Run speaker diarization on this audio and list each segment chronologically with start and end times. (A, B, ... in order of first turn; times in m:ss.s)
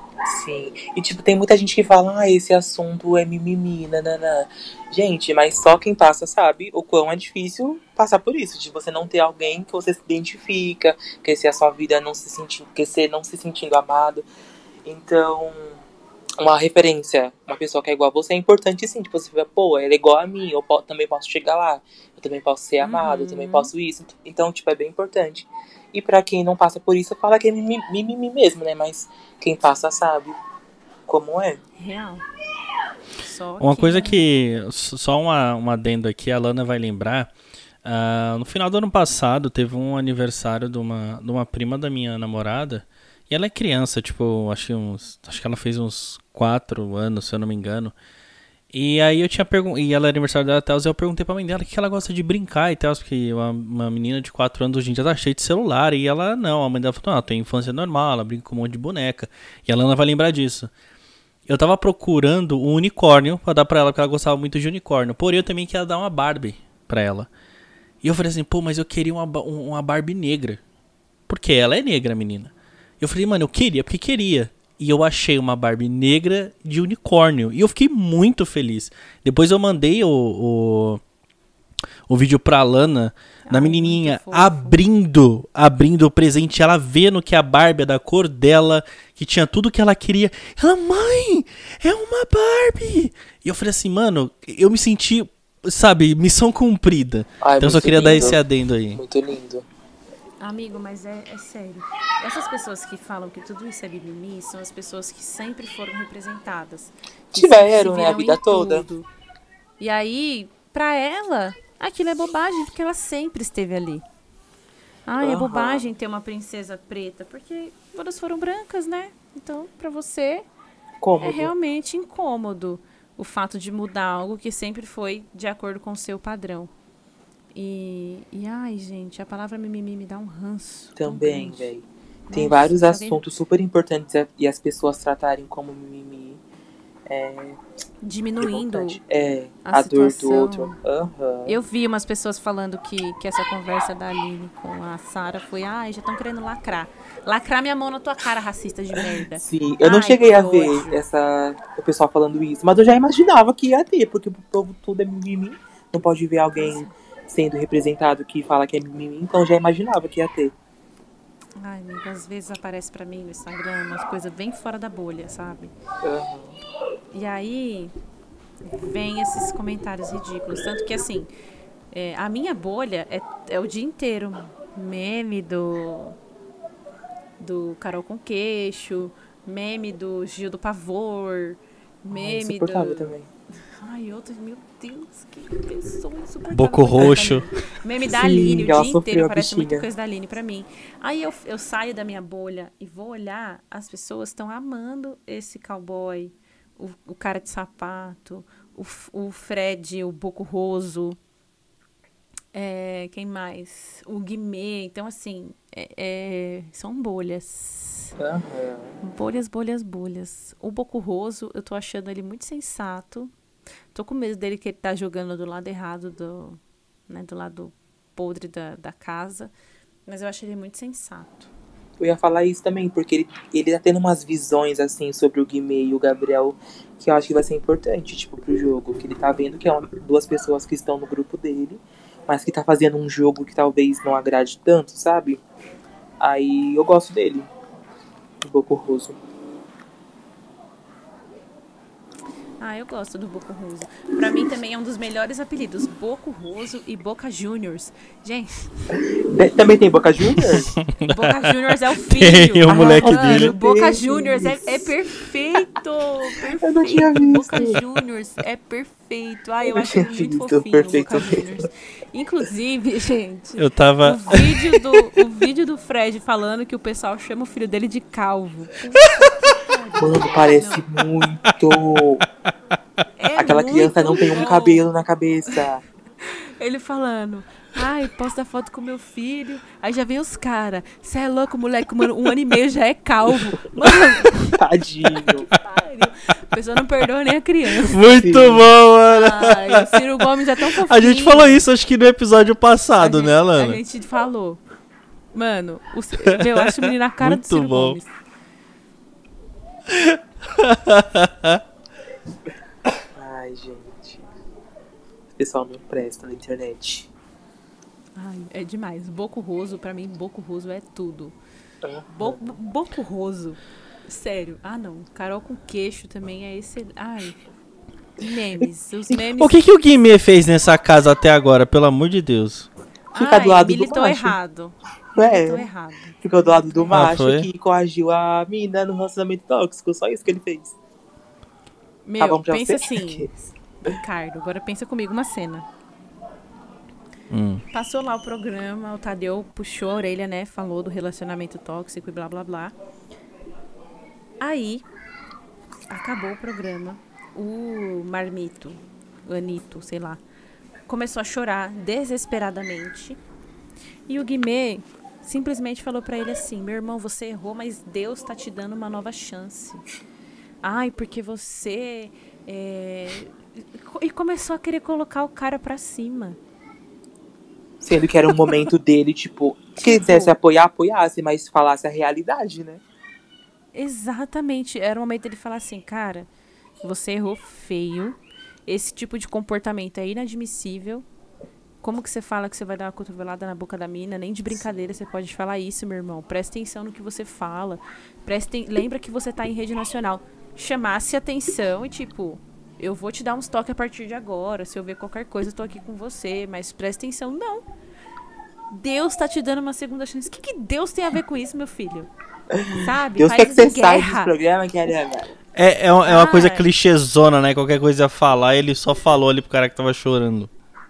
0:00.3-0:14.3 A
0:14.8-0:15.8 A
0:16.4-0:30.3 A
0:22.8-0:23.7 B
0:31.1-0:31.6 A
0:31.8-0:32.2 B
0:33.2-0:34.2 B
0:33.6-0:37.3 C
0:37.8-0:47.9 C
0:48.7-1:00.7 C
1:01.5-1:07.3 C
1:08.0-1:10.6 C
1:11.3-1:21.0 C
1:22.1-1:39.0 C
1:23.4-1:24.8 B
1:37.4-1:38.4 A
1:37.9-1:38.4 B
1:39.0-1:39.7 A
1:40.4-1:49.1 B
1:47.3-1:48.9 A
1:49.8-1:54.0 B
1:55.1-2:00.4 B
1:55.2-1:55.9 A
2:01.0-2:01.5 A
2:01.2-2:06.7 B
2:07.5-2:11.7 B
2:11.0-2:16.4 A
2:12.3-2:13.2 B
2:17.1-2:17.6 A
2:18.0-2:19.0 B
2:18.4-2:21.6 A
2:19.6-2:20.7 B
2:21.5-2:31.0 B
2:29.0-2:40.5 A
2:36.6-2:36.9 B
2:41.6-2:45.7 B
2:46.0-2:46.6 A
2:47.1-2:47.9 B
2:48.6-2:51.3 B
2:51.9-2:56.2 B
2:57.4-3:03.1 B
3:02.1-3:03.3 A
3:03.8-3:21.2 B
3:06.5-3:07.4 C
3:07.0-3:07.3 A
3:08.1-3:09.9 A
3:22.5-3:28.2 B
3:28.2-3:29.0 A
3:29.0-3:33.3 B
3:33.9-3:39.5 B
3:40.1-3:41.5 B
3:42.0-3:55.4 A
3:56.2-3:57.5 A
3:58.4-3:59.2 A
4:02.6-4:09.0 B
4:08.9-4:10.7 A
4:10.8-4:11.3 C
4:11.0-4:30.8 B
4:12.1-4:13.5 C
4:12.7-4:14.9 A
4:16.6-4:17.8 A
4:19.7-4:21.4 A
4:23.6-4:25.0 C
4:30.0-4:32.2 A
4:33.2-4:34.8 B
4:33.4-4:35.8 A
4:36.2-4:44.6 B
4:44.3-4:45.5 A
4:45.2-4:48.2 B
4:47.8-4:50.0 C
4:48.1-4:48.7 A
4:49.1-4:51.6 B
4:50.8-4:53.8 C
4:53.0-4:54.6 B
4:55.3-4:58.1 B
4:56.6-4:58.0 C
4:59.9-5:01.6 C
5:03.2-5:04.2 A
5:05.4-5:07.1 A
5:08.2-5:11.4 B
5:11.8-5:12.5 A
5:12.1-5:17.4 B
5:18.2-5:19.6 B
5:18.6-5:19.2 A
5:19.4-5:22.7 C
5:23.1-5:27.1 B
5:23.2-5:24.4 A
5:25.2-5:25.7 A
5:26.2-5:30.7 A
5:26.9-5:27.5 C
5:32.0-5:33.3 B
5:32.2-5:33.3 A
5:33.8-5:35.7 B
5:37.3-5:37.6 C
5:37.7-5:42.7 B
5:44.4-5:44.8 B
5:45.9-5:50.2 B
5:50.9-5:53.2 B
5:54.1-5:59.8 B
6:00.6-6:06.4 B
6:07.8-6:12.8 A
6:09.8-6:10.3 B
6:13.7-6:16.3 B
6:16.8-6:21.0 B
6:21.8-6:37.6 B
6:38.7-6:42.1 B
6:42.5-6:45.3 A
6:42.7-6:44.3 B
6:45.6-6:50.5 C
6:46.0-6:46.6 B